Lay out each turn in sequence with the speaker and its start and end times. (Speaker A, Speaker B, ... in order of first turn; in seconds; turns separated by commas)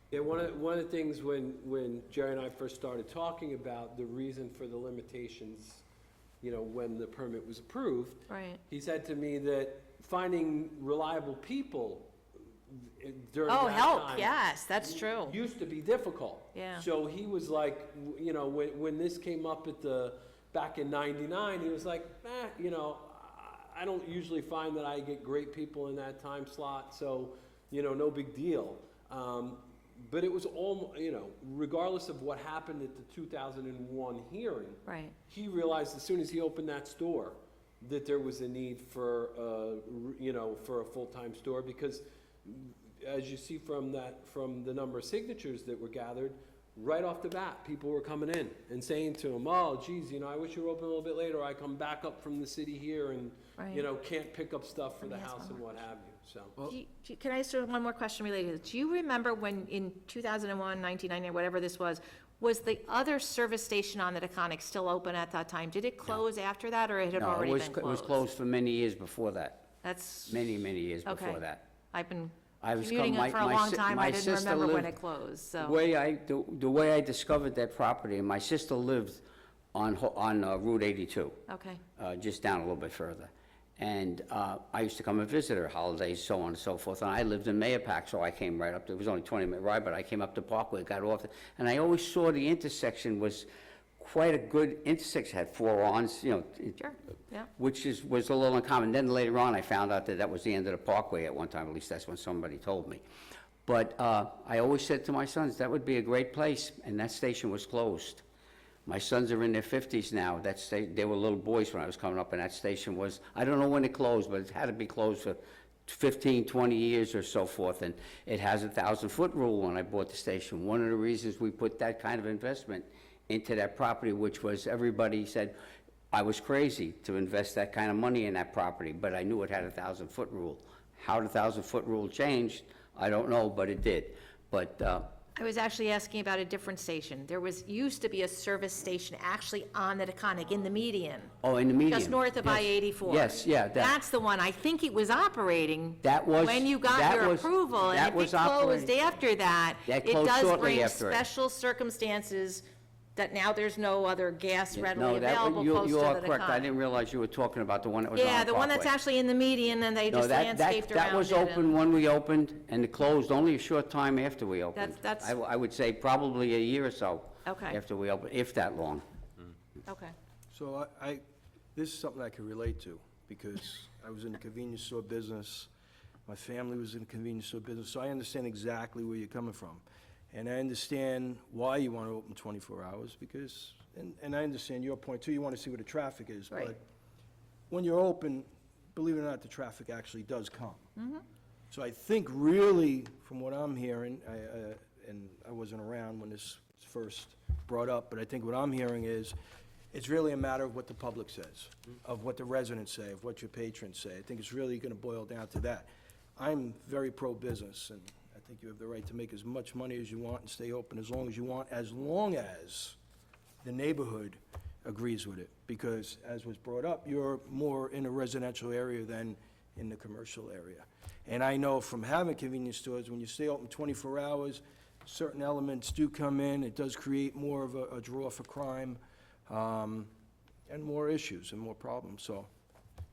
Speaker A: 0.1-5.8, Speaker A: 6.4-12.2, Speaker B: 8.3-8.6, Speaker A: 12.7-56.7, Speaker B: 13.5-15.3, Speaker B: 16.5-16.8, Speaker B: 34.9-35.1, Speaker B: 53.6-53.9, Speaker B: 55.0-55.8, Speaker B: 56.6-68.2, Speaker C: 67.1-69.7, Speaker B: 69.8-70.4, Speaker C: 70.3-71.6, Speaker B: 71.0-75.8, Speaker C: 72.6-74.9, Speaker C: 75.6-79.2, Speaker C: 79.7-81.4, Speaker B: 81.5-81.8, Speaker C: 82.0-96.9, Speaker B: 96.8-97.5, Speaker C: 97.5-103.0, Speaker C: 103.7-108.2, Speaker C: 108.8-125.5, Speaker C: 126.1-135.1, Speaker B: 135.3-141.3, Speaker C: 141.4-143.9, Speaker B: 141.8-152.6, Speaker C: 146.0-148.9, Speaker C: 149.8-151.2, Speaker B: 153.1-156.7, Speaker C: 154.7-158.9, Speaker B: 158.1-161.7, Speaker C: 160.1-169.0, Speaker B: 164.7-165.3, Speaker B: 167.4-167.8, Speaker B: 169.9-170.1, Speaker D: 170.5-171.2, Speaker D: 171.7-175.7, Speaker D: 176.3-186.8, Speaker D: 187.7-190.9, Speaker B: 191.0-191.2, Speaker D: 191.7-199.3, Speaker D: 199.9-213.0, Speaker D: 213.6-230.1, Speaker D: 230.7-232.5